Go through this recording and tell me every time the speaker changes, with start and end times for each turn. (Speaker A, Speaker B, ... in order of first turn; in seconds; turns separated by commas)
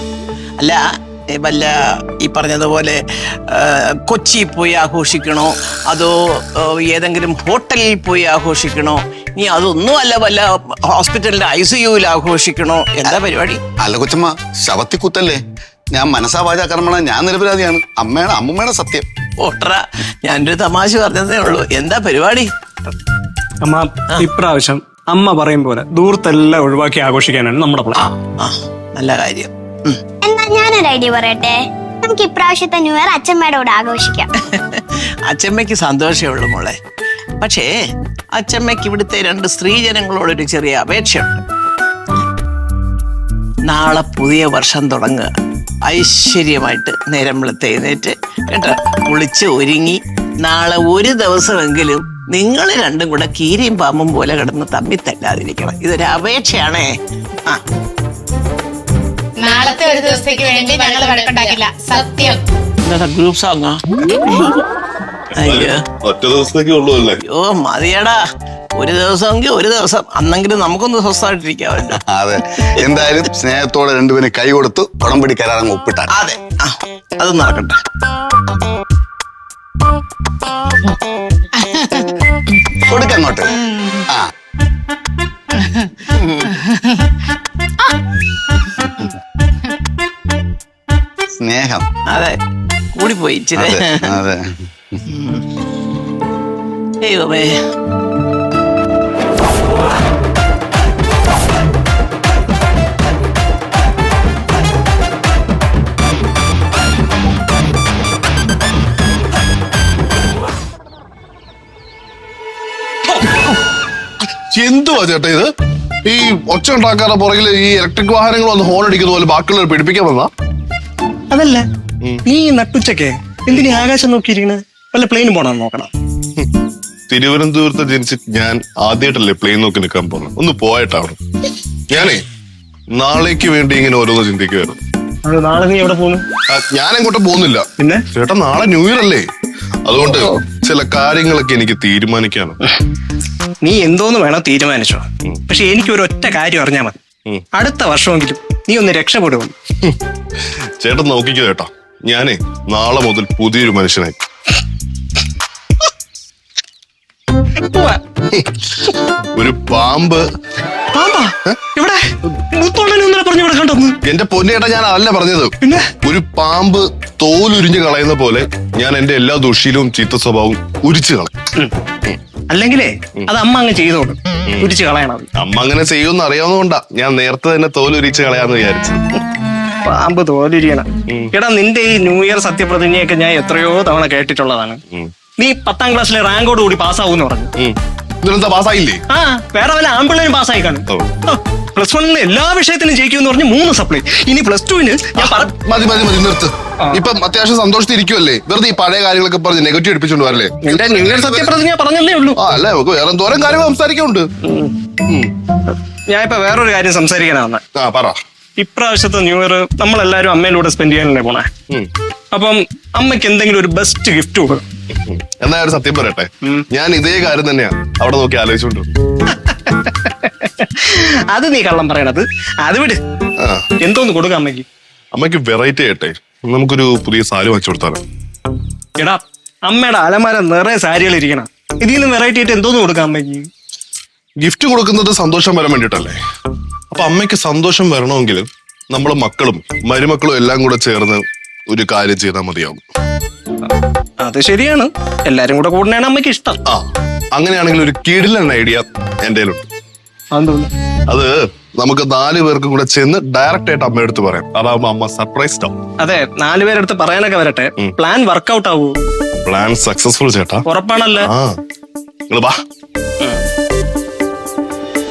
Speaker A: 1.3-13.6, Speaker B: 13.8-15.4, Speaker B: 15.9-19.1, Speaker A: 19.4-22.5, Speaker C: 23.6-28.1, Speaker A: 28.4-30.0, Speaker D: 30.2-34.3, Speaker A: 34.5-36.8, Speaker A: 37.4-37.7, Speaker A: 38.3-41.4, Speaker A: 43.6-45.3, Speaker A: 45.8-56.9, Speaker E: 59.4-62.3, Speaker A: 62.8-64.6, Speaker A: 65.3-65.8, Speaker F: 65.4-67.2, Speaker A: 67.2-68.2, Speaker A: 68.8-72.0, Speaker B: 72.0-76.1, Speaker A: 76.1-77.8, Speaker B: 82.9-83.5, Speaker A: 86.1-86.5, Speaker B: 91.4-91.8, Speaker A: 92.1-92.4, Speaker A: 92.9-94.1, Speaker B: 93.6-95.0, Speaker A: 95.1-95.4, Speaker A: 97.0-97.6, Speaker F: 114.2-115.5, Speaker F: 116.0-120.3, Speaker C: 121.3-121.6, Speaker C: 122.2-125.9, Speaker F: 123.5-123.8, Speaker F: 127.1-131.2, Speaker F: 131.9-132.2, Speaker F: 132.9-134.8, Speaker C: 135.2-136.2, Speaker F: 136.5-139.3, Speaker F: 139.8-142.6, Speaker C: 140.0-140.3, Speaker C: 143.6-146.9, Speaker C: 147.5-149.5, Speaker F: 150.8-154.2, Speaker C: 157.7-158.0, Speaker F: 158.3-160.2, Speaker C: 160.9-163.9, Speaker F: 164.0-171.3, Speaker C: 165.6-165.9, Speaker C: 172.5-175.3, Speaker F: 174.5-174.7, Speaker F: 175.3-179.0, Speaker C: 179.8-184.8, Speaker F: 181.1-181.3, Speaker C: 185.4-187.5, Speaker F: 187.6-189.0, Speaker C: 189.1-195.5, Speaker F: 195.2-201.5, Speaker C: 200.6-202.4, Speaker F: 202.3-204.2, Speaker C: 204.4-204.7, Speaker F: 205.1-205.3, Speaker C: 206.1-207.6, Speaker F: 207.7-208.2, Speaker C: 208.6-211.5, Speaker C: 212.3-214.6, Speaker F: 214.9-218.9, Speaker C: 219.3-223.0, Speaker F: 223.4-223.7, Speaker C: 223.8-224.7, Speaker F: 225.1-228.0, Speaker C: 229.0-233.5, Speaker F: 234.4-236.2, Speaker F: 236.9-242.8, Speaker C: 244.2-246.6, Speaker F: 246.7-249.7, Speaker C: 250.3-250.7, Speaker F: 251.1-255.7, Speaker C: 256.0-259.0, Speaker F: 259.4-260.6, Speaker C: 260.7-261.3, Speaker F: 261.2-261.5, Speaker F: 262.3-262.5